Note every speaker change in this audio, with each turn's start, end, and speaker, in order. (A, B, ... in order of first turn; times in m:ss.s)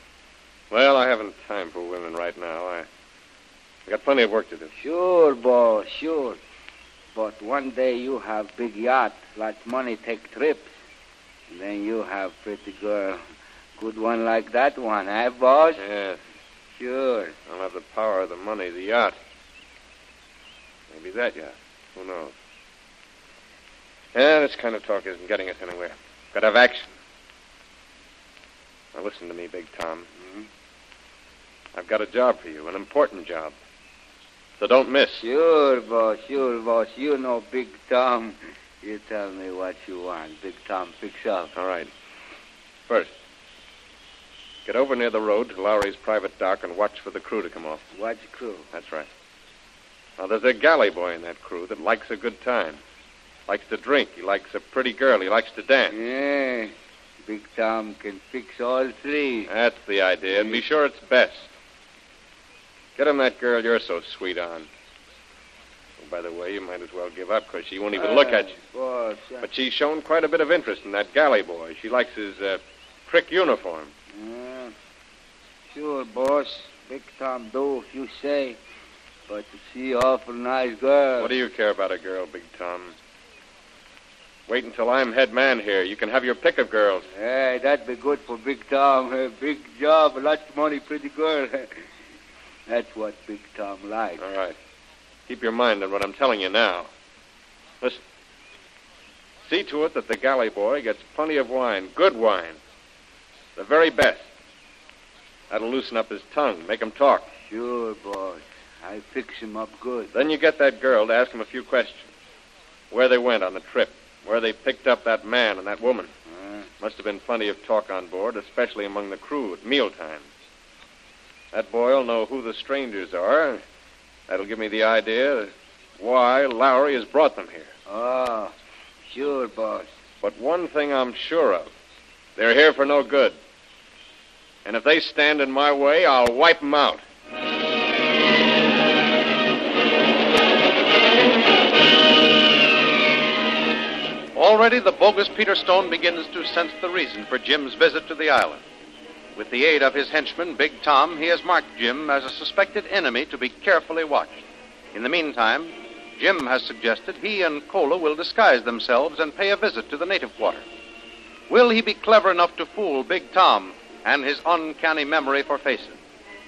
0:00.7-0:02.8 A
0:03.9-0:04.7 A
0:04.8-0:06.4 B
0:07.1-0:10.7 B
0:11.5-0:13.2 B
0:13.8-0:15.8 B
0:15.8-0:16.2 A
0:16.7-0:17.3 B
0:17.5-0:19.2 A
0:20.9-0:22.3 A
0:24.1-0:26.9 A
0:28.9-0:30.0 A
0:30.2-0:30.4 B
0:31.7-0:33.5 A
0:34.6-0:35.2 A
0:35.2-0:41.5 B
0:41.6-0:41.9 A
0:44.6-0:47.8 A
0:47.9-0:48.7 B
0:48.7-0:49.1 A
0:50.2-0:52.8 A
0:53.5-0:56.0 A
0:55.9-0:59.5 B
0:59.5-1:01.5 A
1:00.4-1:00.6 B
1:03.0-1:04.7 A
1:06.0-1:08.6 A
1:07.9-1:09.5 B
1:09.4-1:13.9 A
1:14.1-1:14.7 B
1:15.7-1:18.6 B
1:19.3-1:21.4 B
1:21.2-1:22.9 A
1:24.5-1:27.0 A
1:27.1-1:31.7 B
1:32.7-1:34.2 B
1:34.2-1:34.5 A
1:35.3-1:36.9 A
1:39.5-1:42.6 A
1:43.6-1:44.2 A
1:45.5-1:47.3 A
1:47.5-1:50.1 B
1:50.1-1:52.1 A
1:52.9-1:56.1 A
1:56.3-1:56.7 B
1:56.8-2:00.2 A
2:01.5-2:03.6 A
2:04.3-2:07.7 A
2:07.9-2:08.5 B
2:09.1-2:09.9 B
2:10.2-2:11.7 A
2:12.4-2:13.4 A
2:14.6-2:17.0 A
2:24.3-2:28.6 C
2:29.4-2:34.4 C
2:34.9-2:40.6 C
2:41.5-2:46.0 C